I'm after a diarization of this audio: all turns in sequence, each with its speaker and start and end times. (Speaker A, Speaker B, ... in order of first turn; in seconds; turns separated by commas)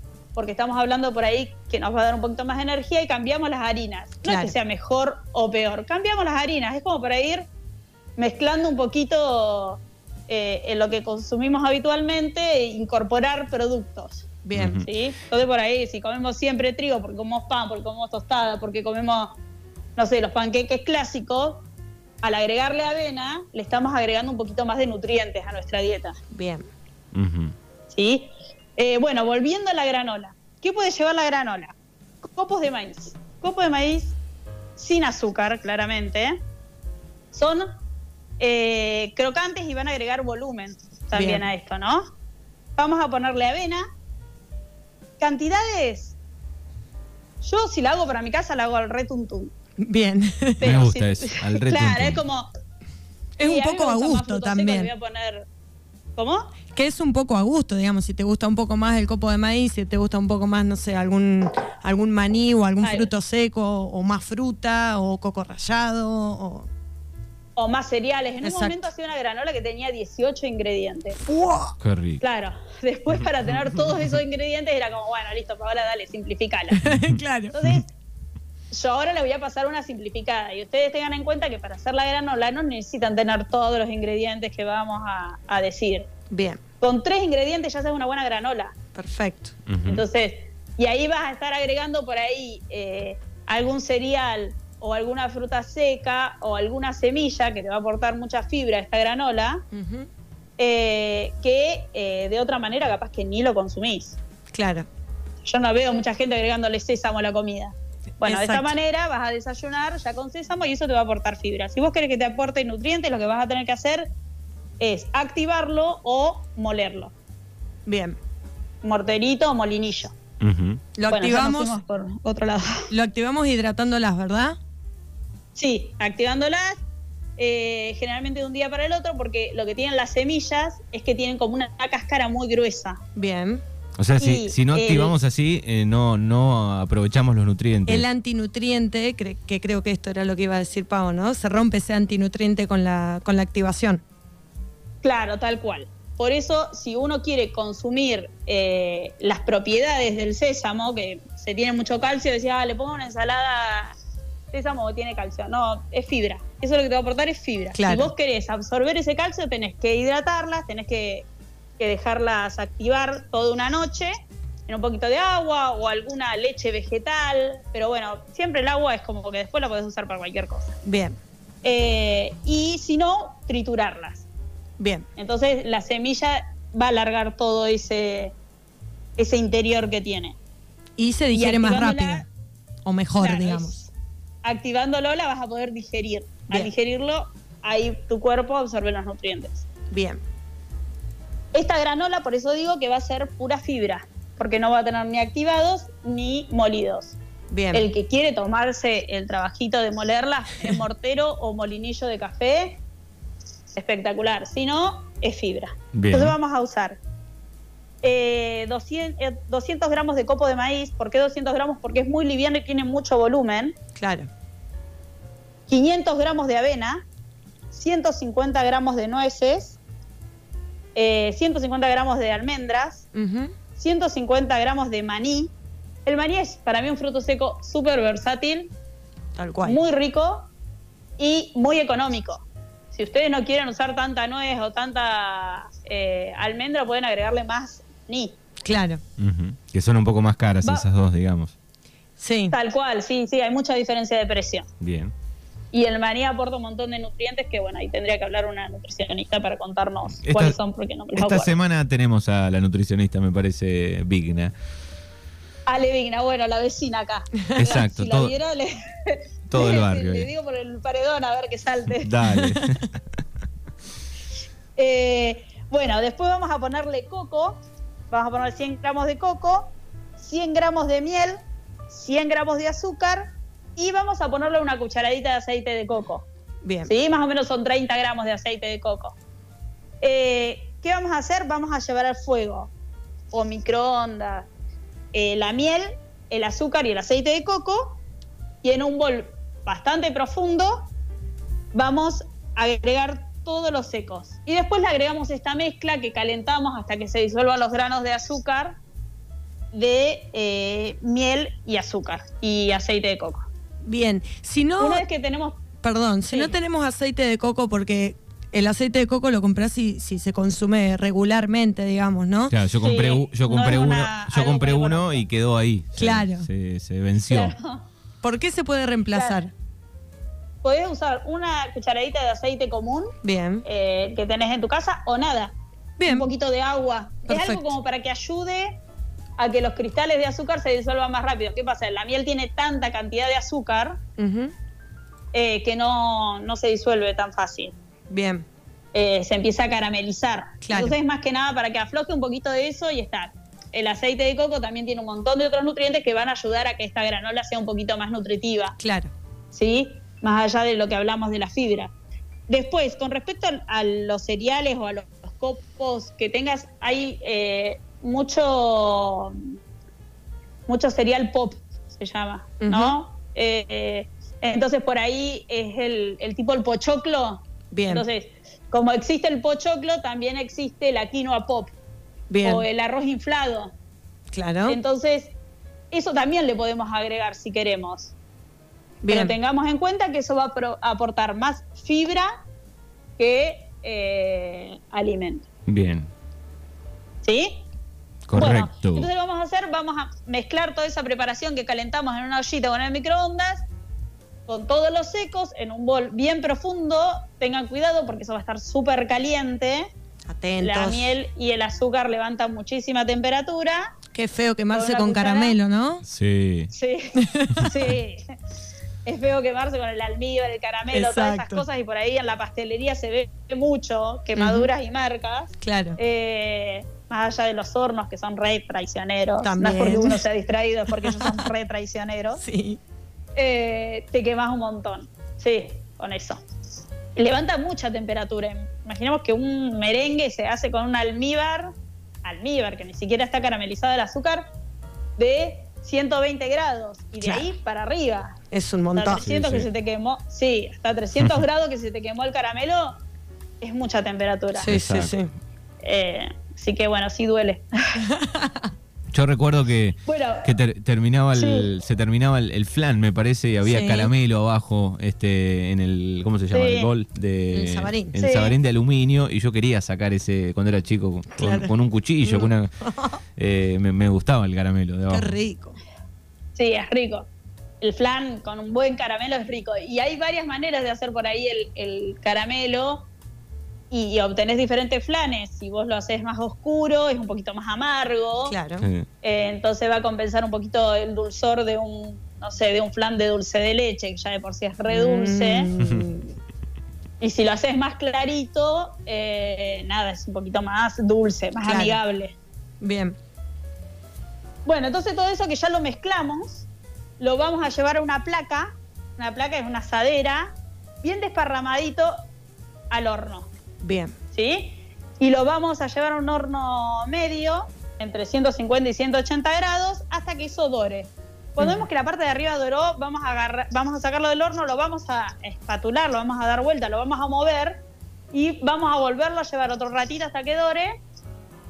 Speaker A: 0.3-7.5, Speaker B: 4.2-4.5, Speaker A: 8.2-14.3, Speaker B: 14.4-14.8, Speaker C: 14.5-14.8, Speaker A: 14.8-19.4, Speaker A: 20.0-21.6, Speaker A: 22.2-26.1, Speaker B: 26.3-26.7, Speaker C: 27.1-27.5, Speaker A: 27.9-34.2, Speaker A: 34.8-36.4, Speaker A: 37.3-37.7, Speaker A: 38.4-42.0, Speaker B: 41.1-41.4, Speaker A: 42.8-43.8, Speaker A: 45.2-46.1, Speaker A: 47.4-49.5, Speaker B: 49.8-50.9, Speaker A: 50.6-52.5, Speaker C: 50.6-52.2, Speaker B: 53.4-54.9, Speaker A: 53.4-55.5, Speaker A: 56.1-56.5, Speaker B: 56.7-66.7, Speaker A: 62.8-63.1, Speaker A: 67.5-71.2, Speaker B: 68.4-68.8, Speaker B: 71.3-71.7, Speaker C: 71.8-72.2, Speaker A: 72.2-76.8, Speaker B: 76.7-77.6, Speaker A: 77.5-77.9, Speaker A: 78.7-86.1, Speaker B: 86.3-86.6, Speaker A: 86.8-88.7, Speaker B: 88.9-89.5, Speaker C: 89.7-90.0, Speaker A: 89.8-99.6, Speaker B: 99.7-100.1, Speaker A: 100.6-104.2, Speaker B: 104.5-104.9, Speaker A: 105.4-114.1, Speaker B: 108.2-108.7, Speaker A: 114.8-117.1, Speaker B: 117.8-118.2, Speaker A: 118.8-120.1, Speaker C: 120.4-120.8, Speaker B: 121.0-121.8, Speaker A: 121.1-122.9, Speaker B: 122.9-124.5, Speaker A: 125.5-126.8, Speaker A: 127.4-133.0, Speaker B: 133.1-133.6, Speaker C: 134.0-138.1, Speaker A: 134.2-135.2, Speaker B: 137.9-144.0, Speaker A: 145.0-153.9, Speaker A: 154.5-161.3, Speaker B: 157.7-158.1, Speaker A: 161.8-164.1, Speaker A: 164.7-170.7, Speaker B: 170.8-171.2, Speaker A: 171.6-174.2, Speaker B: 174.8-175.1, Speaker A: 175.2-178.3, Speaker A: 179.2-180.3, Speaker B: 181.0-182.2, Speaker A: 181.3-182.2, Speaker B: 182.8-183.8, Speaker A: 183.2-183.9, Speaker A: 184.4-189.7, Speaker B: 189.9-190.2, Speaker A: 191.5-197.2, Speaker B: 197.5-197.9, Speaker A: 197.7-202.8, Speaker A: 203.7-207.0, Speaker C: 205.9-206.3, Speaker A: 208.0-213.8, Speaker B: 213.9-214.3, Speaker A: 215.7-217.0, Speaker A: 217.7-219.8, Speaker A: 220.9-223.1, Speaker B: 223.1-223.5, Speaker A: 223.8-225.5, Speaker A: 226.1-228.7, Speaker B: 229.3-229.8, Speaker A: 229.6-230.5, Speaker A: 231.2-238.4, Speaker B: 238.6-239.0, Speaker C: 239.2-241.5, Speaker B: 242.2-242.5, Speaker A: 242.5-244.7, Speaker C: 244.8-245.1, Speaker A: 245.7-251.5, Speaker C: 250.2-250.6, Speaker C: 251.1-254.5, Speaker A: 255.7-262.1, Speaker C: 257.6-258.3, Speaker C: 259.5-260.3, Speaker C: 262.0-262.9, Speaker A: 264.8-271.4, Speaker A: 271.9-276.2, Speaker B: 276.6-276.9, Speaker A: 276.9-279.1, Speaker A: 280.0-282.7, Speaker A: 283.3-284.5, Speaker A: 285.1-288.0, Speaker A: 288.6-290.9, Speaker A: 291.7-298.8, Speaker A: 299.7-303.5, Speaker B: 303.8-305.0, Speaker A: 304.8-305.6, Speaker B: 305.8-312.5, Speaker A: 306.3-306.5, Speaker C: 312.5-317.5, Speaker A: 312.8-315.2, Speaker B: 315.9-316.5, Speaker A: 317.3-317.8, Speaker B: 318.2-319.5, Speaker A: 319.1-319.4, Speaker A: 320.6-323.1, Speaker B: 323.2-323.6, Speaker A: 323.6-328.8, Speaker B: 326.0-326.3, Speaker B: 327.3-327.8, Speaker A: 329.4-334.0, Speaker B: 334.2-334.5, Speaker A: 335.3-337.7, Speaker B: 338.1-338.4, Speaker A: 338.9-348.8, Speaker B: 340.6-340.9, Speaker B: 348.8-349.1, Speaker A: 349.5-351.9, Speaker A: 352.5-359.5, Speaker A: 360.7-371.7, Speaker B: 362.6-363.0, Speaker B: 367.7-368.1, Speaker B: 372.3-372.6, Speaker A: 372.4-373.7, Speaker B: 374.3-374.8, Speaker A: 374.7-375.3, Speaker A: 375.9-378.1, Speaker B: 379.0-379.4, Speaker A: 379.1-382.3, Speaker A: 383.2-385.4, Speaker C: 385.7-386.1, Speaker A: 387.2-387.6, Speaker C: 388.3-389.1, Speaker A: 388.3-393.6, Speaker A: 394.5-399.9, Speaker B: 400.3-401.1, Speaker A: 400.6-403.9, Speaker B: 404.1-406.0, Speaker A: 404.7-405.6, Speaker C: 406.0-406.7, Speaker A: 406.7-408.2, Speaker B: 407.2-407.7, Speaker A: 409.0-422.4, Speaker B: 410.9-411.6, Speaker B: 414.3-414.7, Speaker B: 415.6-416.0, Speaker B: 419.4-420.2, Speaker B: 421.0-421.5, Speaker B: 422.4-422.8, Speaker A: 423.4-426.4, Speaker A: 427.1-431.7, Speaker A: 432.2-434.4, Speaker A: 435.2-438.3, Speaker B: 437.2-437.5, Speaker B: 438.5-439.2, Speaker A: 438.9-442.9, Speaker C: 439.2-439.7, Speaker A: 443.6-444.7, Speaker B: 444.5-445.3, Speaker C: 444.7-445.1, Speaker A: 445.8-448.0, Speaker B: 448.1-448.7, Speaker C: 449.1-462.7, Speaker A: 450.1-450.5, Speaker A: 451.4-451.7, Speaker B: 453.6-454.1, Speaker A: 456.5-456.9, Speaker B: 457.5-458.1, Speaker A: 458.2-458.5, Speaker B: 461.4-463.2, Speaker C: 463.4-465.3, Speaker B: 465.1-465.8, Speaker A: 466.6-467.3, Speaker A: 467.8-473.1, Speaker A: 473.9-478.5, Speaker B: 478.5-478.9, Speaker A: 479.2-485.7, Speaker B: 484.9-486.3, Speaker A: 487.2-492.3, Speaker B: 491.6-492.0, Speaker B: 492.8-493.1, Speaker A: 494.6-496.7, Speaker A: 497.2-502.1, Speaker A: 502.9-503.5, Speaker B: 503.8-504.1, Speaker A: 504.3-520.9